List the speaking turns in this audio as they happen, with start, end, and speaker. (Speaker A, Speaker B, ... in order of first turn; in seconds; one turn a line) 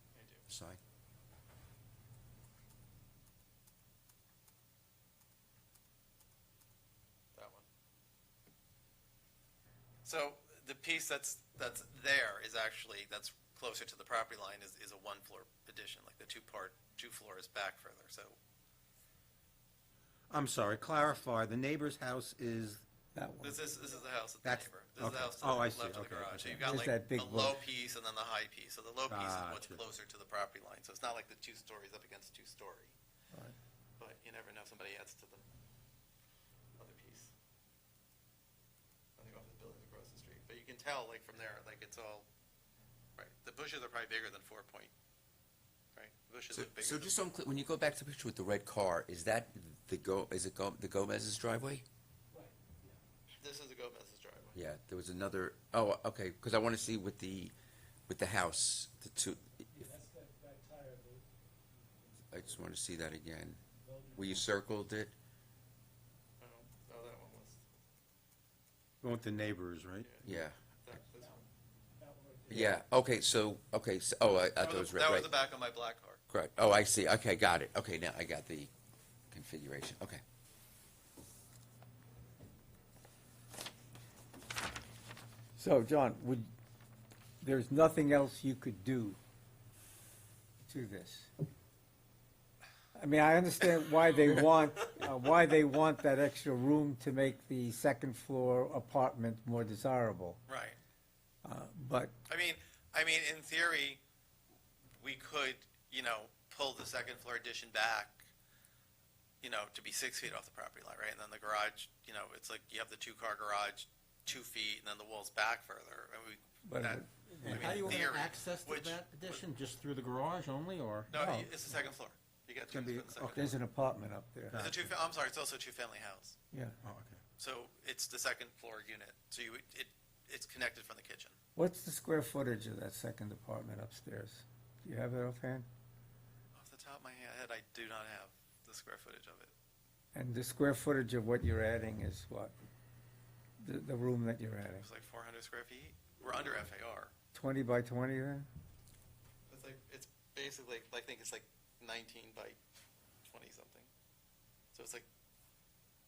Speaker A: 0.1-0.5
Speaker B: 0.5-0.8
Speaker A: 7.3-7.7
Speaker A: 10.1-18.4
Speaker C: 20.3-22.8
Speaker D: 23.1-23.6
Speaker A: 23.4-32.9
Speaker C: 24.4-26.6
Speaker D: 26.6-27.6
Speaker C: 29.1-29.8
Speaker A: 34.0-35.4
Speaker A: 36.8-37.3
Speaker A: 39.2-42.3
Speaker A: 43.2-44.9
Speaker A: 46.0-47.3
Speaker B: 46.5-51.9
Speaker A: 53.3-54.6
Speaker B: 54.5-57.5
Speaker B: 58.1-59.7
Speaker E: 59.7-61.3
Speaker B: 62.3-63.6
Speaker E: 63.8-64.2
Speaker B: 64.1-65.1
Speaker A: 66.4-67.7
Speaker C: 69.0-70.1
Speaker A: 70.0-70.3
Speaker B: 70.2-70.6
Speaker A: 70.8-71.5
Speaker E: 72.0-72.8
Speaker B: 72.5-75.3
Speaker A: 74.6-76.2
Speaker B: 76.3-78.7
Speaker B: 79.3-80.2
Speaker D: 85.6-86.5
Speaker D: 87.4-89.2
Speaker D: 90.7-91.3
Speaker D: 93.0-100.4
Speaker A: 100.5-100.8
Speaker D: 101.4-102.1
Speaker A: 102.3-104.0
Speaker A: 105.0-108.2
Speaker A: 109.4-119.5
Speaker D: 116.7-118.1
Speaker C: 117.4-121.1
Speaker A: 121.1-123.5
Speaker D: 121.1-121.5
Speaker C: 122.7-123.5
Speaker D: 123.3-124.6
Speaker C: 124.5-124.8
Speaker A: 124.5-126.4
Speaker D: 126.5-126.8
Speaker C: 126.8-127.2
Speaker A: 127.4-131.4
Speaker D: 131.6-135.7
Speaker A: 136.5-139.5
Speaker D: 140.1-142.5
Speaker D: 143.6-144.9
Speaker A: 144.8-147.1
Speaker D: 147.3-148.5
Speaker A: 149.5-152.6
Speaker A: 153.2-153.9
Speaker A: 154.7-155.1